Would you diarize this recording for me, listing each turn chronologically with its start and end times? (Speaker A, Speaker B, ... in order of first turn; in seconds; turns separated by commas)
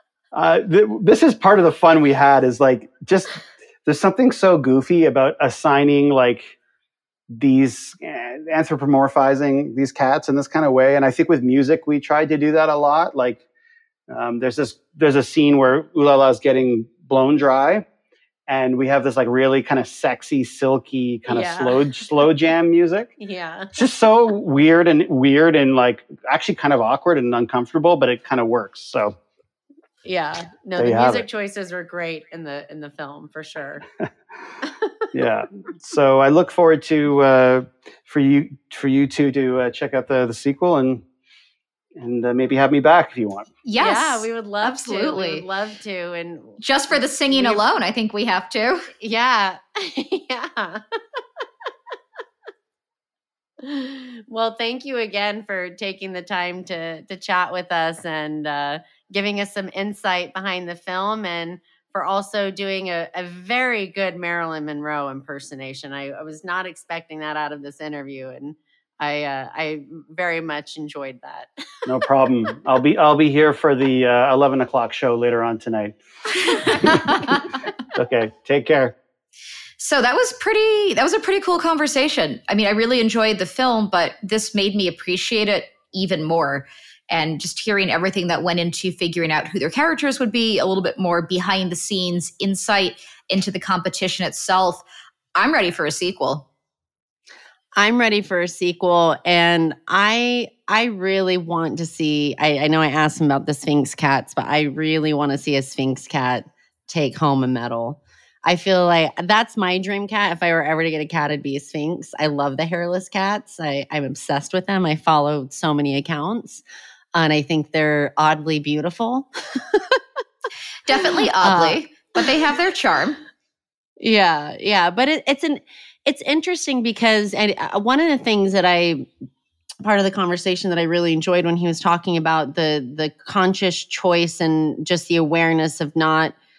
Speaker A: 0.3-6.5, Speaker A: 7.3-13.4, Speaker A: 14.1-17.8, Speaker A: 18.5-23.1, Speaker B: 21.3-22.0, Speaker B: 23.2-23.7, Speaker A: 23.7-29.1, Speaker B: 30.0-33.8, Speaker A: 30.8-31.2, Speaker B: 34.6-35.0, Speaker A: 35.1-41.0, Speaker A: 42.0-43.5, Speaker C: 43.6-45.4, Speaker B: 43.8-47.6, Speaker C: 46.6-48.9, Speaker B: 49.0-51.2, Speaker B: 53.6-71.5, Speaker A: 71.8-76.0, Speaker C: 76.5-77.5, Speaker A: 76.5-77.2, Speaker A: 77.9-78.9, Speaker C: 79.8-96.5, Speaker B: 97.8-116.6, Speaker B: 117.1-120.0, Speaker C: 120.8-123.2, Speaker B: 121.0-122.3, Speaker B: 124.0-129.1, Speaker B: 129.8-136.3